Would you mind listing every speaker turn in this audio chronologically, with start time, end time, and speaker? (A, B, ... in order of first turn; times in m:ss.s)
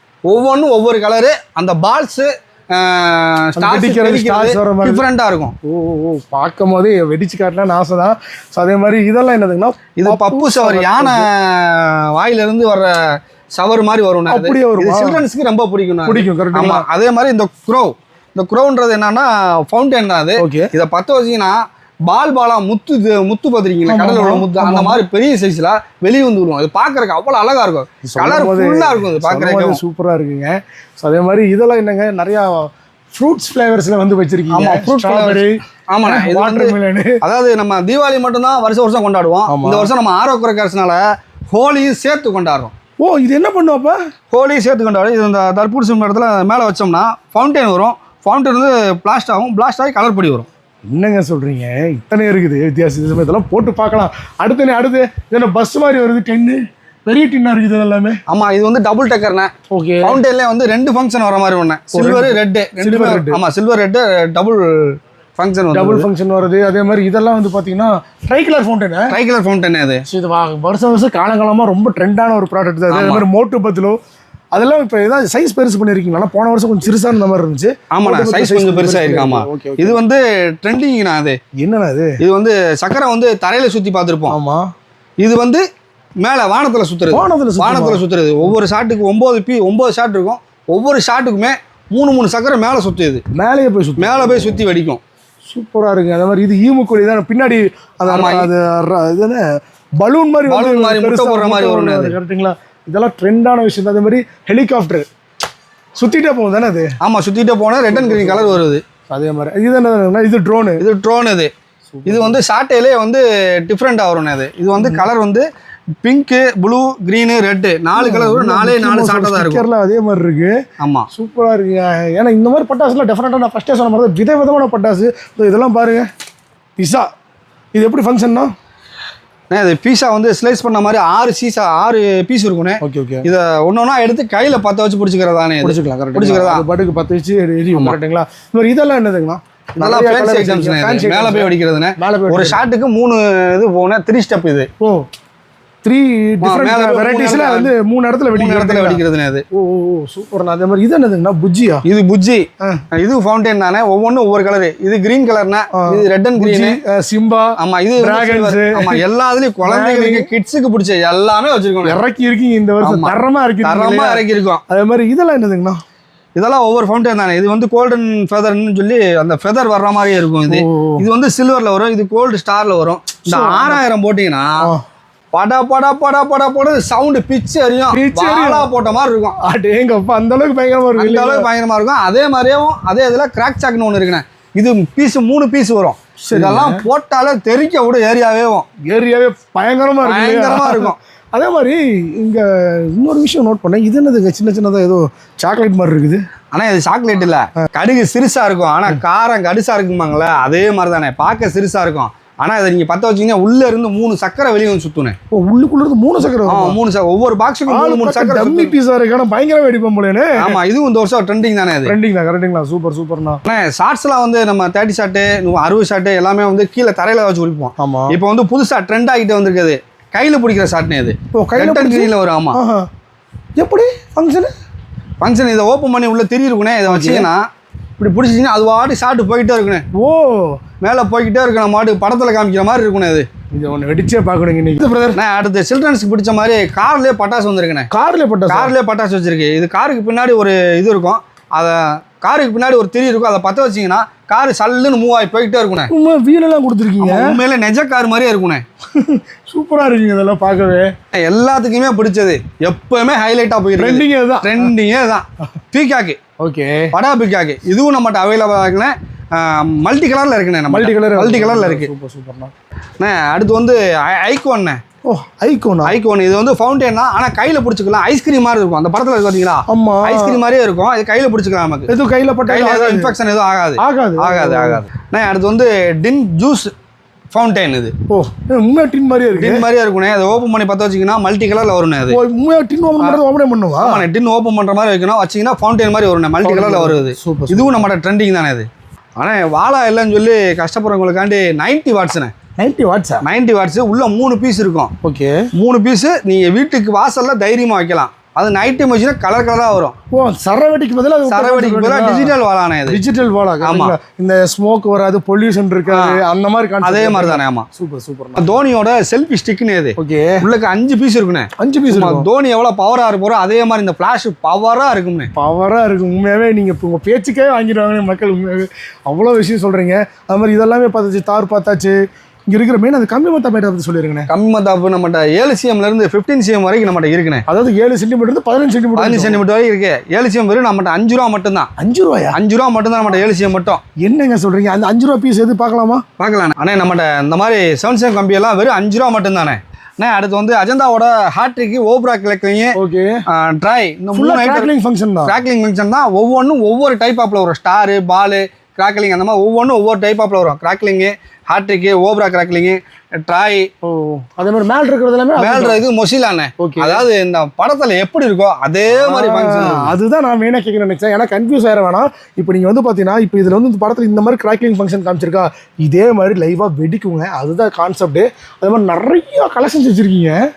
0:00.3-0:05.6 A
0:03.6-0:05.0 B
0:05.6-0:11.3 B
0:10.0-0:29.8 A
0:14.3-0:15.2 B
0:16.1-0:16.8 B
0:20.4-0:20.7 B
0:23.9-0:25.0 B
0:28.0-0:37.2 B
0:34.5-0:42.7 A
0:39.5-0:39.9 B
0:43.0-0:44.0 B
0:44.3-0:50.5 A
0:50.9-0:58.2 B
0:58.3-0:59.5 A
0:59.7-1:00.2 B
1:00.0-1:06.1 A
1:01.9-1:03.4 B
1:05.7-1:09.2 B
1:09.1-1:10.0 A
1:10.1-1:14.0 B
1:12.9-1:13.3 A
1:14.6-1:20.0 B
1:17.9-1:21.4 A
1:21.6-1:22.2 B
1:22.2-1:24.4 A
1:24.3-1:24.6 B
1:25.2-1:25.6 A
1:26.2-1:33.2 A
1:27.1-1:28.0 B
1:33.3-1:34.6 B
1:34.0-1:35.0 A
1:35.5-1:39.5 B
1:38.1-1:38.5 A
1:40.0-1:45.1 B
1:40.5-1:42.2 A
1:46.0-1:46.9 B
1:47.0-1:48.8 A
1:47.9-1:50.8 B
1:50.8-1:51.5 A
1:51.9-1:52.4 B
1:52.1-1:55.5 A
1:54.8-1:55.0 B
1:56.0-1:59.6 A
1:58.0-2:00.6 B
2:00.8-2:01.1 A
2:01.1-2:06.1 B
2:06.8-2:07.1 B
2:07.8-2:08.5 B
2:09.5-2:16.6 A
2:12.8-2:13.3 B
2:15.6-2:22.6 B
2:19.8-2:24.7 A
2:25.8-2:29.0 B
2:26.4-2:27.7 A
2:28.3-2:29.4 A
2:29.5-2:31.8 B
2:31.9-2:36.8 A
2:35.8-2:39.0 B
2:37.6-2:42.0 A
2:39.6-2:40.3 B
2:41.8-2:45.8 B
2:42.8-2:44.6 A
2:46.4-2:54.5 A
2:50.5-2:51.0 B
2:53.3-2:53.8 B
2:55.3-2:59.4 A
2:57.9-2:58.7 B
2:59.4-3:01.5 B
3:01.0-3:08.7 A
3:06.2-3:06.8 B
3:08.9-3:16.2 B
3:10.0-3:11.0 A
3:16.5-3:25.2 A
3:25.3-3:26.8 B
3:26.5-3:28.8 A
3:27.7-3:30.6 B
3:30.4-3:32.0 A
3:31.9-3:33.4 B
3:33.5-3:42.6 A
3:37.8-3:38.2 B
3:41.3-3:42.9 B
3:43.6-3:44.5 B
3:45.2-3:47.4 A
3:46.9-3:47.3 B
3:48.0-3:49.8 A
3:50.0-3:50.6 B
3:50.8-3:53.3 A
3:53.6-3:55.2 B
3:55.2-3:57.9 A
3:57.9-3:58.7 B
3:58.5-4:05.9 A
4:05.9-4:07.4 B
4:07.0-4:08.6 A
4:09.0-4:10.9 B
4:11.1-4:16.2 A
4:13.8-4:14.7 B
4:16.4-4:16.9 B
4:16.9-4:21.9 A
4:20.7-4:22.5 B
4:23.0-4:24.8 A
4:25.1-4:26.0 B
4:25.8-4:31.9 A
4:29.7-4:30.4 B
4:31.9-4:33.1 B
4:32.5-4:36.7 A
4:33.8-4:34.8 B
4:37.3-4:37.9 A
4:38.1-4:39.6 B
4:39.3-4:42.2 A
4:42.1-4:44.0 B
4:43.8-4:52.3 A
4:46.4-4:47.8 B
4:52.6-4:53.2 B
4:53.2-4:54.9 A
4:55.0-4:55.4 B
4:55.6-5:00.0 A
5:00.1-5:02.3 B
5:01.3-5:03.0 A
5:02.9-5:08.5 B
5:03.6-5:04.0 A
5:05.9-5:06.2 A
5:06.8-5:07.7 A
5:08.4-5:15.3 A
5:10.0-5:10.4 B
5:11.6-5:12.3 B
5:15.4-5:22.0 B
5:22.5-5:24.3 B
5:24.3-5:27.4 A
5:27.5-5:29.4 B
5:29.0-5:31.7 A
5:31.8-5:32.4 B
5:32.3-5:33.8 A
5:34.0-5:36.0 B
5:36.2-5:42.7 A
5:42.8-5:43.2 B
5:43.3-5:44.7 A
5:44.1-5:45.4 B
5:45.2-5:53.7 A
5:53.8-5:55.8 B
5:55.4-5:59.9 A
5:56.6-5:57.0 B
5:58.9-6:10.4 B